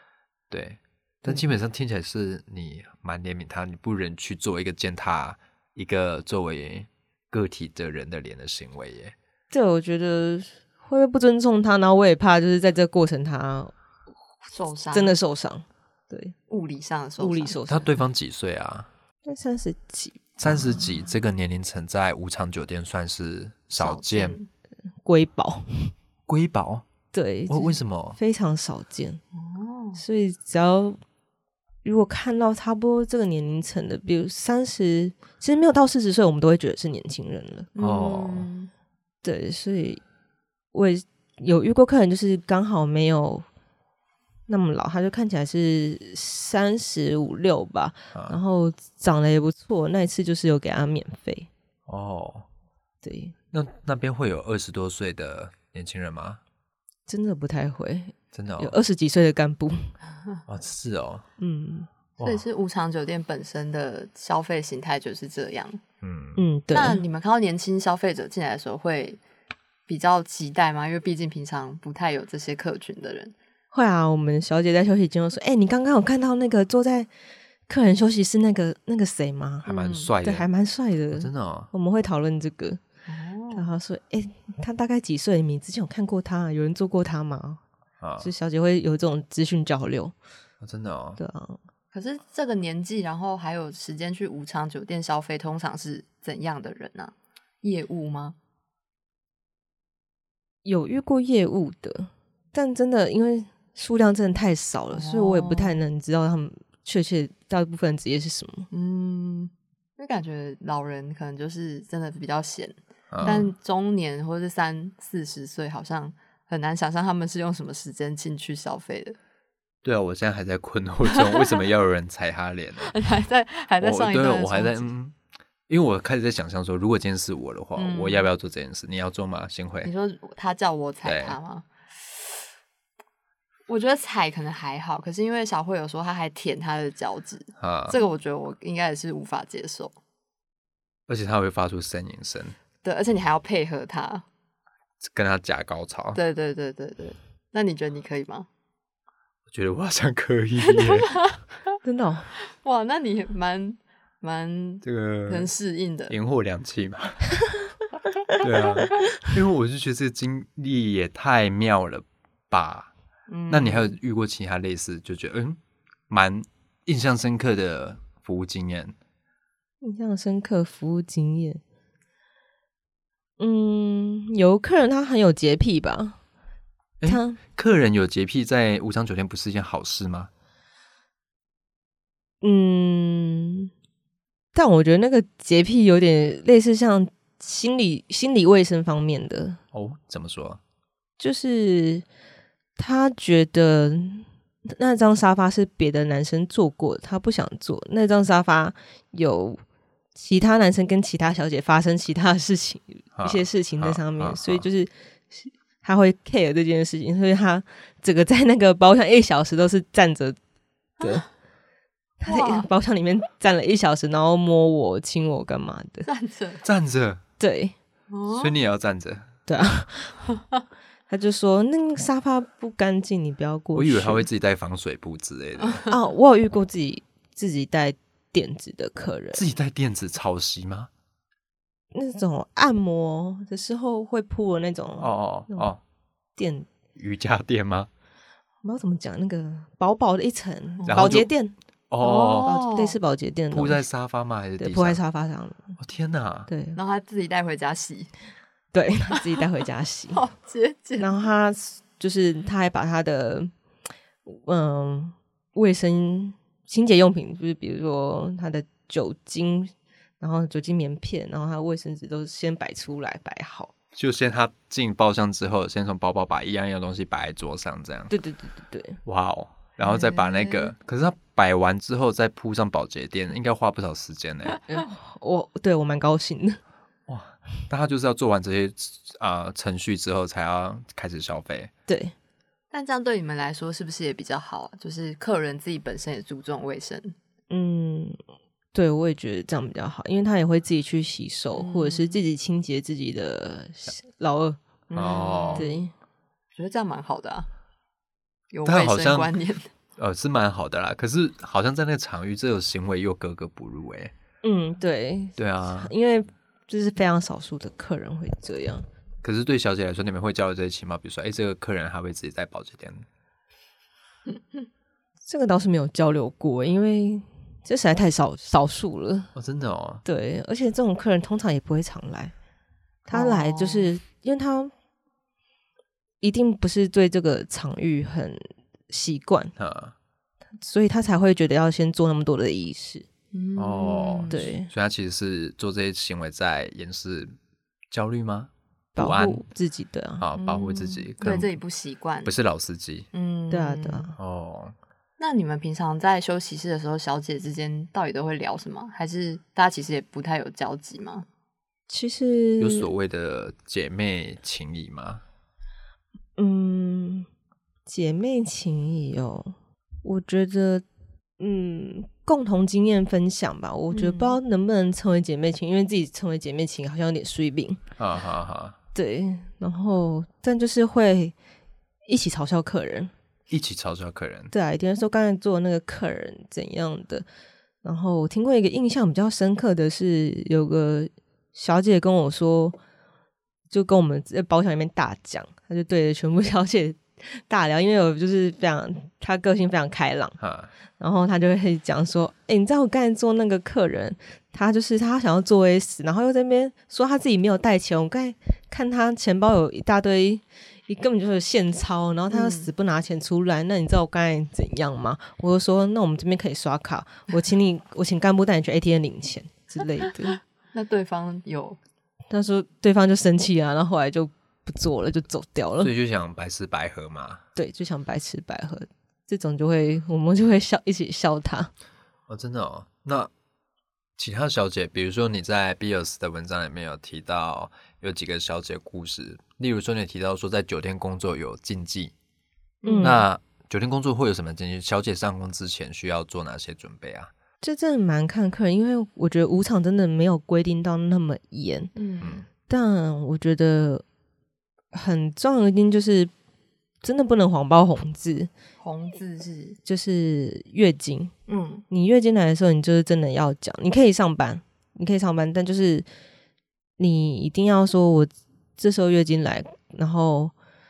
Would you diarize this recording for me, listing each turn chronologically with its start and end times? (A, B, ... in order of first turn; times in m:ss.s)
0:00.5-0:09.2 A
0:09.5-0:13.7 B
0:14.5-0:15.1 C
0:14.9-0:16.4 B
0:16.5-0:17.6 C
0:17.2-0:17.9 B
0:17.7-0:18.9 A
0:19.2-0:20.9 B
0:20.4-0:24.4 A
0:23.8-0:24.5 C
0:25.0-0:25.9 B
0:26.3-0:26.8 A
0:27.1-0:29.2 B
0:27.5-0:28.2 A
0:29.3-0:30.0 C
0:30.0-0:31.0 B
0:31.8-0:37.7 B
0:37.8-0:38.7 C
0:37.8-0:38.5 A
0:39.2-0:40.0 B
0:40.7-0:43.5 B
0:44.5-0:51.5 B
0:51.9-0:52.5 A
0:53.0-0:53.3 B
0:53.5-0:56.4 A
0:57.1-0:59.9 B
0:58.3-0:58.8 A
1:00.5-1:01.3 A
1:01.4-1:01.9 B
1:02.2-1:02.4 A
1:02.2-1:05.8 C
1:06.0-1:06.4 A
1:06.4-1:07.0 B
1:06.7-1:09.2 C
1:09.9-1:13.3 C
1:13.7-1:17.1 B
1:17.7-1:19.7 B
1:19.6-1:20.1 C
1:19.7-1:20.5 A
1:20.2-1:22.8 B
1:21.1-1:21.7 A
1:23.1-1:23.7 C
1:23.5-1:27.6 B
1:28.0-1:28.3 A
1:28.2-1:30.1 B
1:30.6-1:31.2 A
1:31.2-1:31.6 B
1:31.9-1:38.4 C
1:40.6-1:48.7 B
1:44.9-1:45.8 C
1:48.7-1:59.2 C
1:53.1-1:53.5 A
1:53.2-1:53.5 B
1:59.8-2:02.9 A
2:01.2-2:01.5 C
2:02.8-2:04.9 C
2:03.8-2:05.2 A
2:05.7-2:09.9 A
2:07.8-2:08.3 C
2:09.8-2:12.2 C
2:11.0-2:11.4 A
2:13.7-2:20.0 C
2:17.6-2:18.0 A
2:21.1-2:22.6 A
2:22.8-2:24.2 C
2:25.0-2:26.2 A
2:26.2-2:28.5 C
2:29.5-2:31.2 A
2:30.7-2:31.4 C
2:31.8-2:32.3 B
2:32.5-2:36.2 C
2:34.8-2:35.5 A
2:36.1-2:37.4 A
2:38.4-2:42.9 A
2:43.3-2:44.0 C
2:43.5-2:49.0 A
2:49.8-2:51.6 B
2:53.4-2:56.2 B
2:57.0-3:00.3 A
2:57.0-2:57.4 B
3:02.4-3:03.7 B
3:04.5-3:09.6 B
3:09.7-3:10.6 A
3:11.2-3:12.0 B
3:12.8-3:19.6 B
3:20.2-3:30.4 B
3:23.2-3:24.7 A
3:31.0-3:31.2 B
3:32.2-3:36.1 B
3:32.3-3:32.7 C
3:36.1-3:36.6 C
3:36.6-3:37.2 A
3:37.4-3:37.7 B
3:38.1-3:38.6 C
3:38.3-3:39.3 A
3:39.5-3:40.2 B
3:41.1-3:44.3 B
3:43.8-3:45.8 A
3:45.6-3:45.9 C
3:45.9-3:49.4 B
3:49.3-3:50.9 A
3:51.9-3:55.7 B
3:55.0-3:55.8 A
3:56.4-3:56.7 B
3:57.0-3:57.9 A
3:58.6-4:01.5 B
4:00.8-4:01.2 C
4:00.9-4:01.3 A
4:01.9-4:02.5 A
4:02.0-4:03.0 C
4:02.4-4:03.8 B
4:03.5-4:05.0 A
4:04.6-4:05.8 B
4:05.8-4:06.5 A
4:06.5-4:06.8 B
4:06.8-4:08.1 C
4:08.7-4:10.2 B
4:10.1-4:11.1 C
4:11.0-4:13.5 B
4:14.3-4:23.7 B
4:23.9-4:28.1 A
4:28.1-4:29.0 B
4:29.0-4:34.6 A
4:29.8-4:30.7 C
4:34.7-4:36.6 B
4:37.1-4:41.7 A
4:41.9-4:42.1 B
4:42.7-4:47.2 C
4:47.5-4:48.2 B
4:48.7-4:54.6 B
4:51.6-4:52.2 C
4:54.9-4:55.8 C
4:55.0-4:55.6 A
4:55.5-4:55.9 B
4:56.6-4:57.5 C
4:58.5-4:59.6 C
4:58.6-4:59.3 A
5:00.0-5:04.1 A
5:04.4-5:08.9 B
5:05.4-5:05.9 A
5:09.2-5:13.0 A
5:15.3-5:19.3 B
5:19.4-5:20.0 A
5:20.0-5:22.3 B
5:23.1-5:24.7 B
5:23.1-5:23.9 C
5:26.2-5:29.5 B
5:29.6-5:30.0 A
5:30.6-5:33.1 B
5:33.3-5:34.5 C
5:33.6-5:37.4 A
5:34.3-5:34.7 B
5:37.9-5:39.4 A
5:39.0-5:40.3 B
5:40.2-5:41.6 A
5:40.4-5:42.3 C
5:42.2-5:43.1 A
5:43.1-5:44.2 C
5:43.5-5:44.1 B
5:44.2-5:44.8 A
5:45.2-5:51.3 C
5:51.9-5:52.9 B
5:52.6-5:55.2 A
5:56.4-5:57.3 B
5:57.9-6:00.8 B
6:01.4-6:07.8 B
6:03.9-6:04.4 C
6:08.0-6:08.8 A
6:09.0-6:11.3 B
6:12.1-6:13.1 B
6:13.5-6:14.5 A
6:14.5-6:17.3 B
6:17.8-6:22.8 B
6:23.7-6:30.4 B
6:30.4-6:30.7 A
6:31.0-6:50.4 B
6:42.3-6:42.7 C
6:50.7-6:51.8 C
6:52.3-6:55.9 B
6:55.8-6:57.4 A
6:57.6-7:01.7 B
7:02.3-7:03.3 A
7:04.2-7:12.1 A
7:12.8-7:13.2 C
7:12.8-7:13.2 B
7:13.0-7:17.3 A
7:17.6-7:21.9 B
7:22.0-7:22.4 C
7:22.2-7:22.5 A
7:22.7-7:24.0 B
7:24.9-7:26.3 B
7:27.0-7:28.5 B
7:28.8-7:29.8 C
7:29.8-7:31.3 B
7:31.5-7:31.8 C
7:31.9-7:36.1 B
7:37.0-7:40.5 B